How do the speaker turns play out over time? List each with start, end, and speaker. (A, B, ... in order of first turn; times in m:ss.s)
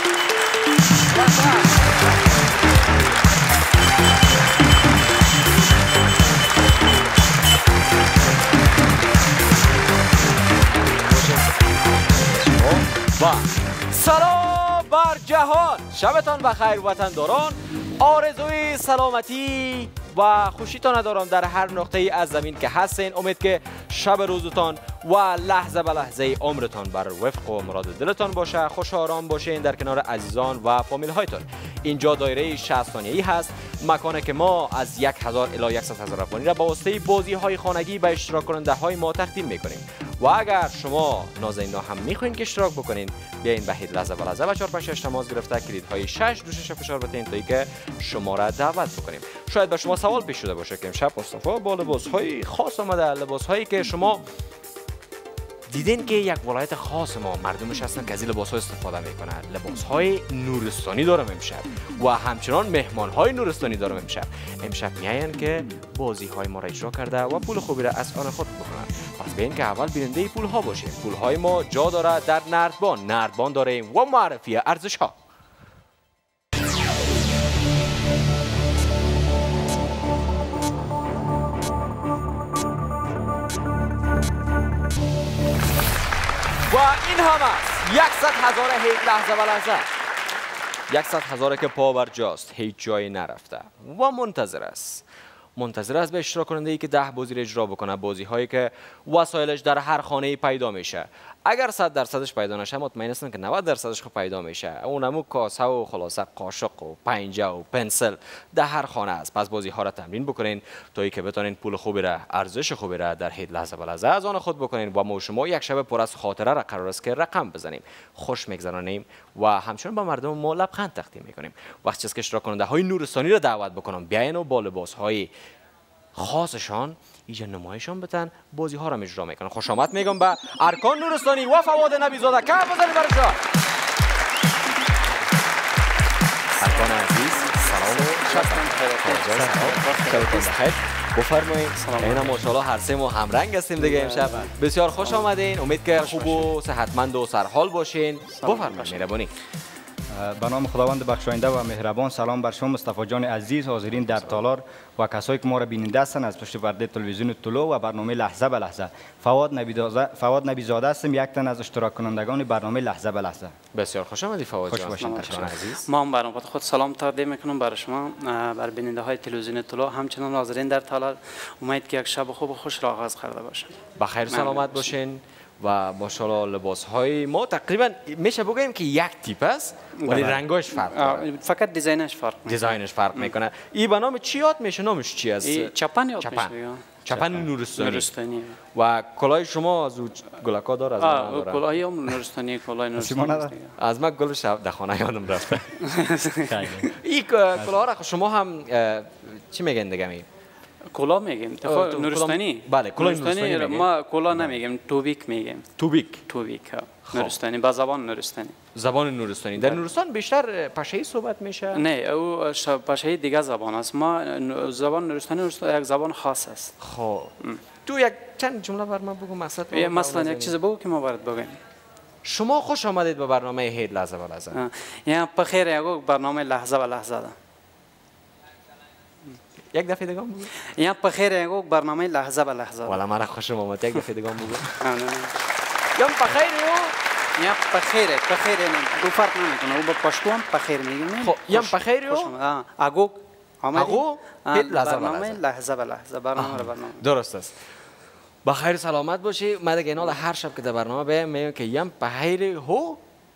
0:01.1-0:02.2 A
0:10.9-0:11.6 A
0:12.1-0:54.2 A
0:55.7-1:15.1 A
1:26.7-1:29.9 A
1:30.9-1:35.0 A
1:35.6-2:05.3 A
2:06.2-2:13.4 A
2:16.6-2:20.6 B
2:16.6-2:29.3 A
2:21.8-2:22.5 B
2:23.8-2:25.3 B
2:26.0-2:26.5 B
2:28.4-2:29.1 B
2:30.1-2:43.6 C
2:43.7-2:45.8 A
2:44.7-2:45.6 C
2:45.0-2:53.8 B
2:54.0-3:01.3 A
2:54.3-2:54.9 B
3:00.0-3:03.3 B
3:00.1-3:00.4 C
3:02.5-3:08.1 A
3:05.4-3:06.9 B
3:07.1-3:07.5 C
3:07.8-3:08.6 B
3:08.7-3:11.7 A
3:11.0-3:13.8 B
3:13.0-3:13.5 C
3:13.8-3:15.8 A
3:15.8-3:16.9 B
3:16.5-3:16.9 C
3:17.0-3:20.3 A
3:20.9-3:25.7 B
3:21.6-3:23.9 A
3:25.8-3:26.2 A
3:26.3-3:28.6 B
3:27.1-3:27.4 A
3:28.7-3:31.8 A
3:31.7-3:36.8 B
3:36.8-3:40.5 A
3:39.7-3:41.6 B
3:42.2-3:44.6 A
3:44.5-3:47.4 B
3:49.7-3:50.5 A
3:50.6-3:53.0 B
3:52.9-3:54.8 A
3:54.8-3:55.3 B
3:56.0-3:57.0 A
3:57.4-4:07.0 B
4:01.2-4:02.3 A
4:03.7-4:05.4 A
4:06.4-4:07.6 A
4:08.4-4:13.0 A